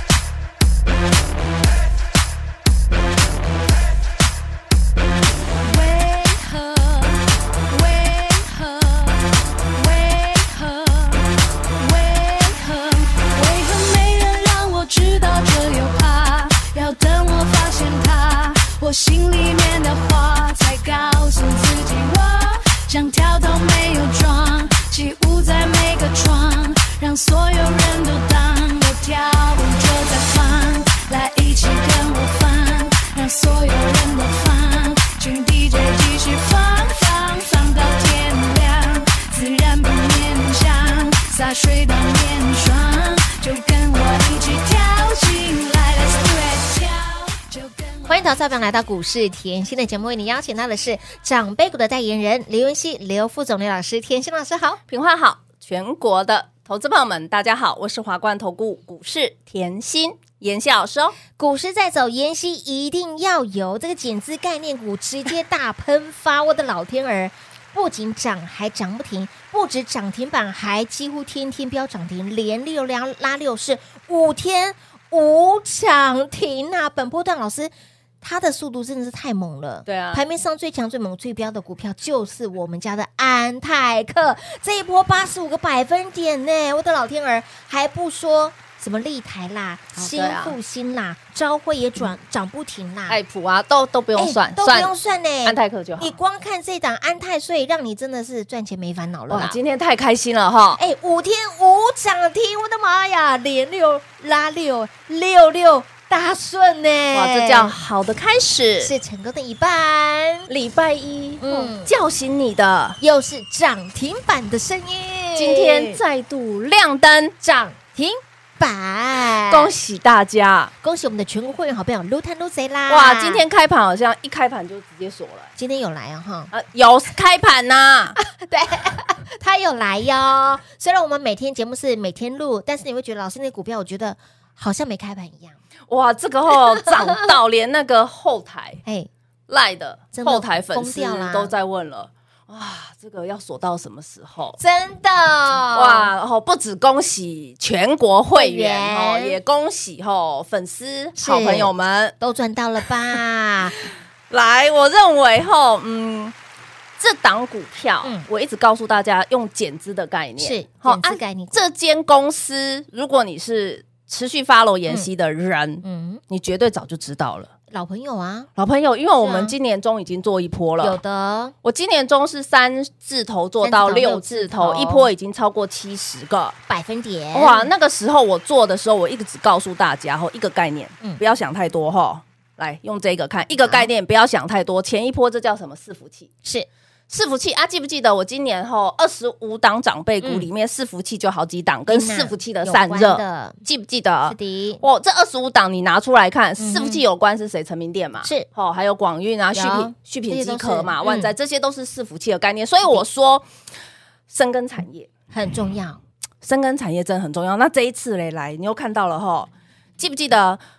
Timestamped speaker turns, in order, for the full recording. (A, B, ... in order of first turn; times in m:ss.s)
0:05.6-0:48.3 A
0:48.1-0:54.8 B
0:54.9-1:01.2 C
1:01.4-1:33.2 B
1:19.9-1:20.2 C
1:30.0-1:30.6 C
1:33.1-1:34.9 C
1:34.2-1:39.6 B
1:35.4-1:36.2 C
1:39.3-1:40.8 C
1:40.8-1:47.8 B
1:47.1-1:48.9 C
1:48.8-1:50.5 B
1:50.5-1:53.0 C
1:51.4-1:51.9 B
1:53.0-1:56.0 B
1:55.4-1:57.4 C
1:57.4-1:59.7 B
1:59.5-2:00.7 C
2:00.8-2:03.4 B
2:02.9-2:05.5 C
2:05.6-2:06.5 B
2:06.5-2:08.2 C
2:08.2-2:15.6 B
2:15.9-2:18.8 C
2:16.5-2:17.3 B
2:19.5-2:24.6 C
2:20.1-2:21.5 B
2:24.6-2:26.1 B
2:25.7-2:32.2 C
2:28.4-2:29.4 B
2:31.2-2:33.8 B
2:34.3-2:36.3 C
2:37.0-2:47.5 C
2:40.4-2:41.6 B
2:45.8-2:46.2 B
2:47.7-2:48.5 B
2:48.6-2:51.0 C
2:49.2-2:49.6 B
2:50.8-2:51.6 B
2:51.6-2:56.6 C
2:53.6-2:55.1 B
2:56.7-2:57.7 B
2:57.3-3:06.3 C
3:03.6-3:03.9 B
3:07.1-3:23.4 C
3:10.2-3:10.5 B
3:11.9-3:13.6 B
3:14.3-3:14.8 B
3:16.6-3:17.0 B
3:19.6-3:21.3 B
3:24.3-3:25.1 C
3:25.3-3:26.0 B
3:26.4-3:30.6 C